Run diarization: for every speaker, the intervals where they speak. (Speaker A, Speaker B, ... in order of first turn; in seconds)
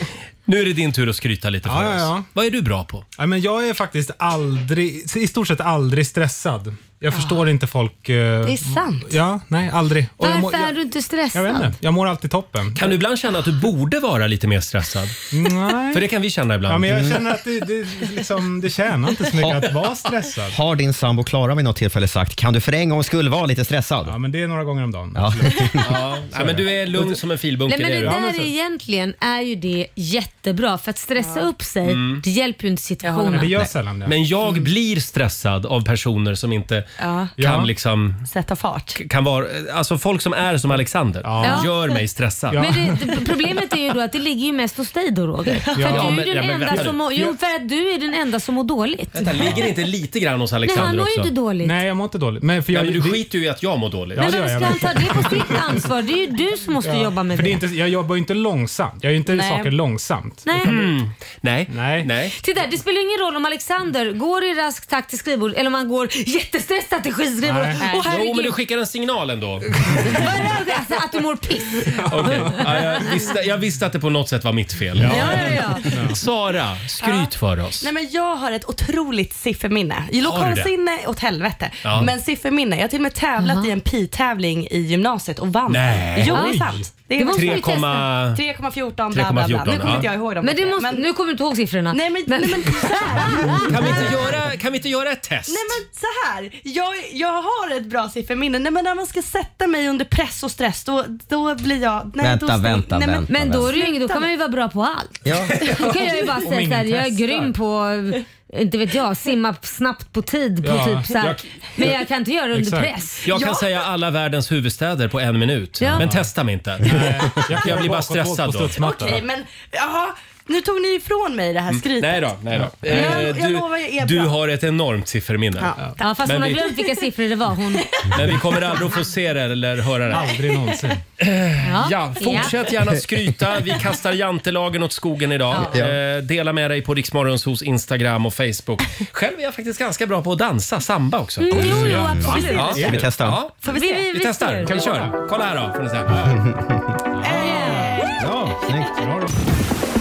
Speaker A: 0.5-3.0, 12.8-15.2, 15.9-17.1, 25.8-28.2, 31.8-32.2, 34.0-36.9, 37.4-38.2, 38.9-42.6, 45.8-47.0, 49.1-51.3, 52.7-54.7, 60.6-62.3, 68.0-69.7, 72.1-77.9, 80.2-80.7, 81.8-82.1, 85.7-88.4, 89.1-90.1, 93.7-95.8, 113.2-118.8, 121.7-125.7, 126.2-126.6, 128.1-130.3, 131.2-143.6, 144.1-146.3
Speaker B: 1.6-2.3, 3.2-10.7, 11.3-12.9, 15.3-16.1, 16.7-20.5, 24.1-25.9, 28.0-28.5, 33.3-34.1, 37.4-37.7, 41.2-41.7, 42.5-43.1, 45.7-47.3, 51.6-53.2, 54.1-55.9, 56.8-60.8, 61.7-62.1, 67.4-67.8, 69.8-70.2, 71.9-72.7, 75.0-76.2, 105.6-107.5, 110.6-111.2, 112.5-112.9, 116.0-116.2, 116.8-119.2, 130.1-131.0, 141.8-142.8, 144.7-145.1
Speaker C: 8.4-9.1, 31.2-31.5, 33.0-33.6, 37.0-37.3, 38.3-39.0, 59.2-59.7, 77.0-91.1, 91.9-94.3, 95.5-104.3, 113.3-113.7, 118.8-122.3, 122.8-124.3, 125.6-126.8, 128.0-129.1, 130.1-130.8, 142.2-142.8, 143.6-144.1, 147.2-148.1
Speaker D: 10.2-11.7, 27.7-33.6, 41.4-41.7, 42.5-49.3, 50.6-51.8, 54.2-57.6, 60.4-60.8, 62.4-68.5, 70.0-73.1, 75.1-75.9, 83.4-83.7, 86.3-86.6, 87.1-88.1, 90.4-93.7, 103.3-113.2, 115.8-116.1, 122.9-123.2, 126.0-128.1, 131.6-132.5, 141.4-142.8, 143.7-144.7, 147.4-147.9
Speaker E: 19.4-19.8, 20.5-24.1, 25.1-26.6, 102.2-103.7, 105.2-105.6, 135.7-135.9, 141.6-143.4, 146.2-146.9, 148.2-149.3